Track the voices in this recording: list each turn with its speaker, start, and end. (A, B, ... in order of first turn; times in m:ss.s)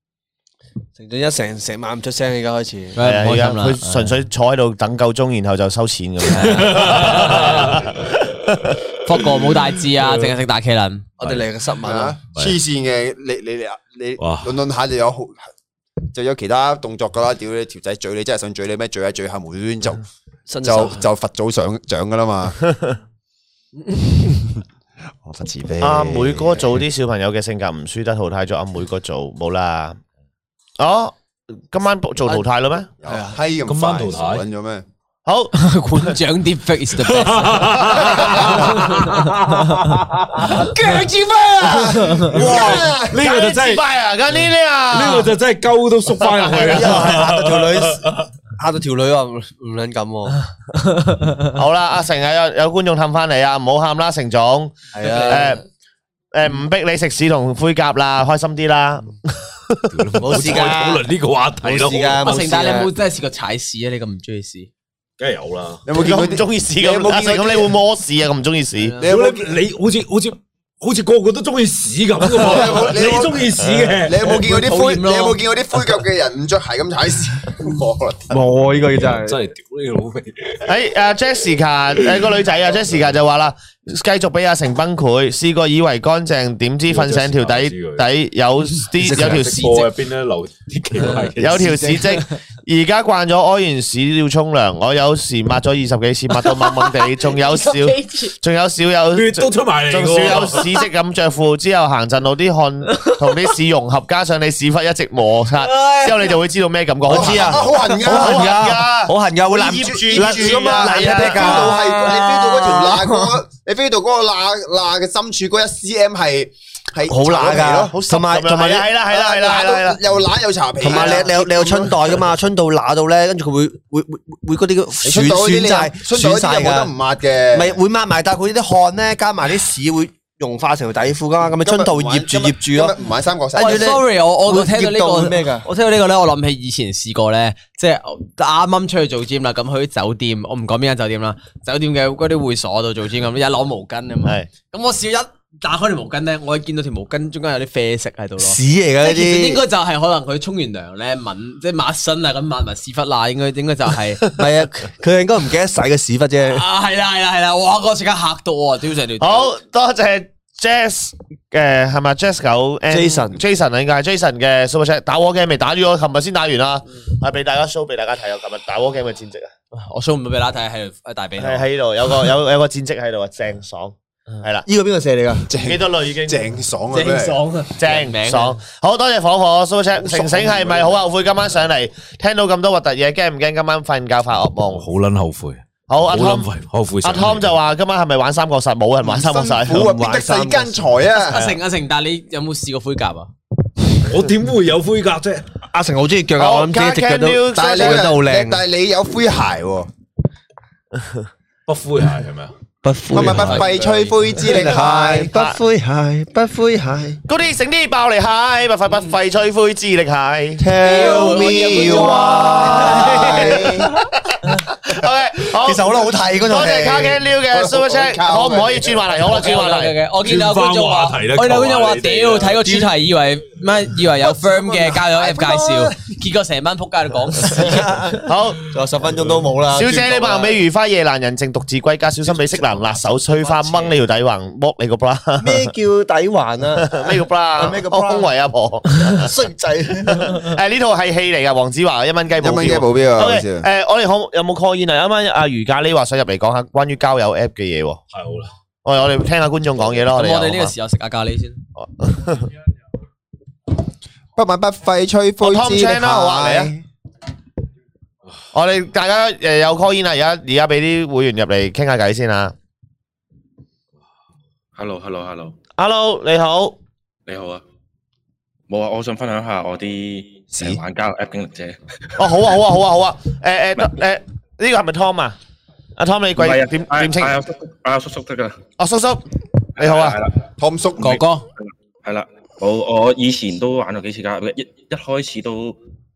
0:01.0-0:03.0 A
0:03.0-0:04.2 B
0:03.0-0:08.7 C
0:06.4-0:07.4 B
0:06.4-0:08.2 D
0:09.0-0:11.1 B
0:11.2-0:11.5 D
0:11.2-0:12.2 A
0:11.8-0:15.5 E
0:14.2-0:14.6 D
0:16.1-0:20.1 E
0:20.5-0:21.1 A
0:20.6-0:22.7 E
0:22.7-0:23.0 C
0:25.2-0:26.8 E
0:25.8-0:30.0 C
0:30.8-0:32.9 C
0:33.0-0:34.8 E
0:33.1-0:33.4 A
0:33.7-0:34.5 D
0:35.3-0:36.2 C
0:35.6-0:39.9 B
0:37.0-0:43.8 D
0:38.0-0:38.6 C
0:42.3-0:43.2 E
0:42.4-0:45.3 C
0:44.9-0:48.3 D
0:46.2-0:46.9 C
0:46.6-0:48.0 A
0:48.6-0:50.4 A
0:51.5-0:55.6 C
0:54.9-0:55.6 A
0:55.0-0:55.5 B
0:56.3-1:00.6 C
0:59.9-1:02.6 D
1:00.2-1:01.0 A
1:01.6-1:02.9 A
1:02.2-1:04.7 B
1:05.2-1:05.9 D
1:05.9-1:07.8 E
1:05.9-1:09.0 C
1:08.8-1:09.1 B
1:09.0-1:14.3 D
1:09.0-1:09.6 E
1:12.3-1:18.4 E
1:14.2-1:15.4 B
1:18.3-1:19.4 A
1:19.0-1:20.7 D
1:20.7-1:29.9 C
1:22.0-1:22.3 D
1:26.9-1:28.0 D
1:29.0-1:29.7 A
1:29.0-1:32.0 D
1:31.4-1:52.1 C
1:36.5-1:38.3 B
1:39.1-1:40.7 D
1:47.1-1:52.9 A
1:47.1-1:48.7 E
1:49.7-1:58.0 E
1:57.1-1:58.9 A
1:57.9-2:00.0 C
1:59.1-2:02.2 E
2:00.8-2:06.9 A
2:00.8-2:01.2 C
2:05.0-2:07.8 E
2:07.5-2:13.0 A
2:11.6-2:14.0 E
2:13.5-2:15.7 A
2:13.6-2:34.3 B
2:24.2-2:24.5 C
2:28.4-2:29.6 A
2:34.4-2:36.6 A
2:36.5-2:39.5 B
2:39.2-2:49.5 C
2:42.9-2:43.4 A
2:49.7-2:52.3 B
2:51.4-2:54.7 C
2:54.7-2:55.5 A
2:55.5-2:57.4 E
2:55.6-2:56.4 C
2:56.9-2:58.6 B
2:57.8-3:04.9 C
3:00.0-3:01.0 E
3:04.7-3:07.6 D
3:05.9-3:06.5 C
3:07.0-3:10.5 C
3:09.0-3:11.4 E
3:09.9-3:10.8 A
3:11.2-3:13.3 B
3:11.3-3:11.6 C
3:14.0-3:15.4 D
3:15.7-3:18.6 A
3:16.4-3:18.0 C
3:17.5-3:19.9 E
3:21.7-3:22.5 D
3:22.8-3:23.8 A
3:23.1-3:25.3 E
3:23.2-3:24.8 D
3:23.4-3:24.0 B
3:24.4-3:27.2 A
3:25.3-3:25.6 C
3:27.3-3:30.6 C
3:30.6-3:33.7 A
3:30.8-3:33.6 B
3:30.9-3:33.9 E
3:32.4-3:40.0 C
3:35.6-3:37.2 A
3:37.5-3:39.1 E
3:39.3-3:48.1 B
3:40.2-3:42.9 D
3:44.4-3:46.0 A
3:47.4-3:50.6 A
3:48.2-3:48.6 C
3:49.7-3:55.7 C
3:53.5-3:53.9 B
3:55.4-3:58.3 A
3:56.8-3:59.3 C
3:59.0-4:00.5 A
4:00.1-4:08.0 C
4:02.4-4:03.7 E
4:08.1-4:08.5 D
4:08.8-4:10.7 C
4:10.1-4:11.6 B
4:11.8-4:12.5 C
4:14.4-4:16.8 E
4:15.4-4:16.7 C
4:18.5-4:22.5 C
4:24.8-4:25.6 F
4:25.8-4:26.8 C
4:27.3-4:27.6 F
4:28.7-4:32.4 F
4:30.5-4:30.8 E
4:32.2-4:35.4 C
4:36.0-4:37.4 C
4:36.4-4:38.6 F
4:38.8-4:39.2 C
4:39.8-4:40.2 C
4:39.8-4:40.4 F
4:40.6-4:41.2 E
4:41.0-4:41.4 B
4:41.6-4:45.8 F